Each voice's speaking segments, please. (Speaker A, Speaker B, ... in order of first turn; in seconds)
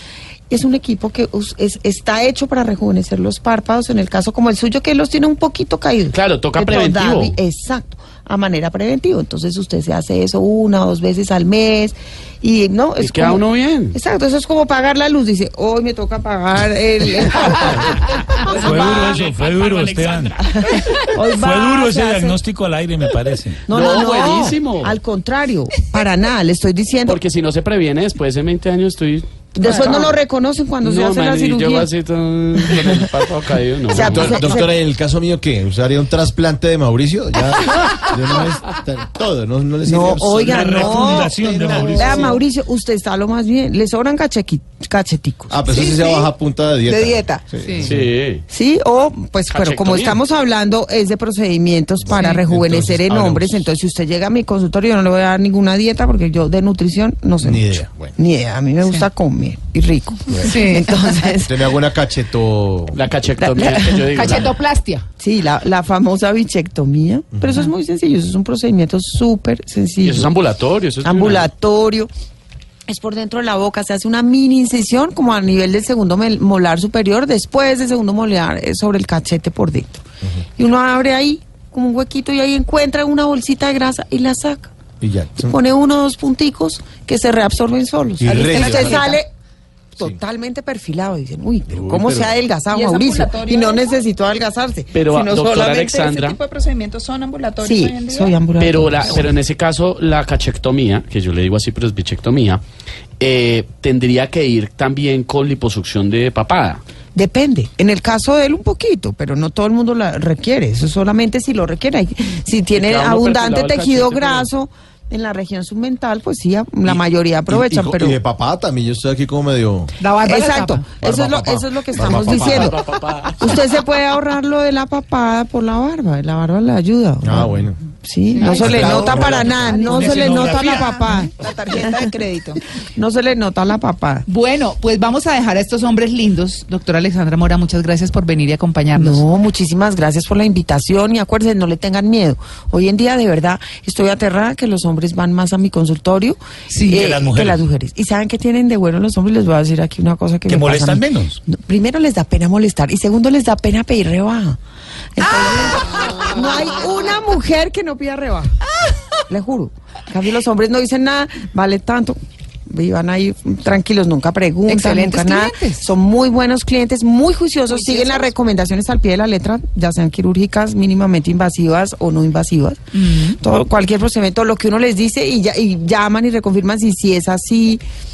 Speaker A: 0.5-19.2, 20.4-22.4, 23.7-27.2, 29.5-31.9, 32.6-33.2, 33.9-34.7, 39.8-45.6, 48.5-61.7, 63.4-64.4, 65.2-70.3, 71.0-72.1, 72.9-80.0, 80.6-84.7, 85.3-89.3, 90.0-95.9, 97.6-99.3, 107.1-118.2, 120.2-122.8, 123.4-132.1, 132.9-134.3, 138.9-154.6, 155.2-158.6, 159.3-172.8, 173.4-177.8
Speaker B: 6.1-7.4, 13.0-14.0, 23.7-24.9, 27.1-30.1, 30.8-34.6, 47.8-48.4, 49.5-50.2, 62.9-64.5, 70.0-71.5, 94.9-96.4, 98.6-102.6, 103.2-106.8, 112.7-114.5, 122.0-123.6
Speaker C: 18.4-23.6, 40.4-42.3, 129.6-131.2, 146.9-147.6, 150.5-151.4
Speaker D: 18.8-19.1, 45.7-46.3, 88.2-89.2, 92.7-93.9, 95.1-98.3, 128.4-132.6, 167.7-168.3
Speaker E: 33.9-42.3, 45.5-48.1, 52.1-53.6, 57.4-58.1, 61.4-63.0, 85.0-85.6, 88.2-89.1, 91.8-92.3, 117.5-119.9, 121.0-122.9, 127.2-127.8, 128.4-129.9
Speaker F: 46.9-47.9, 52.1-52.4, 60.4-60.9, 64.1-65.0, 120.0-120.8, 128.4-128.9, 134.3-139.2, 146.7-147.1, 164.7-165.9, 172.9-173.4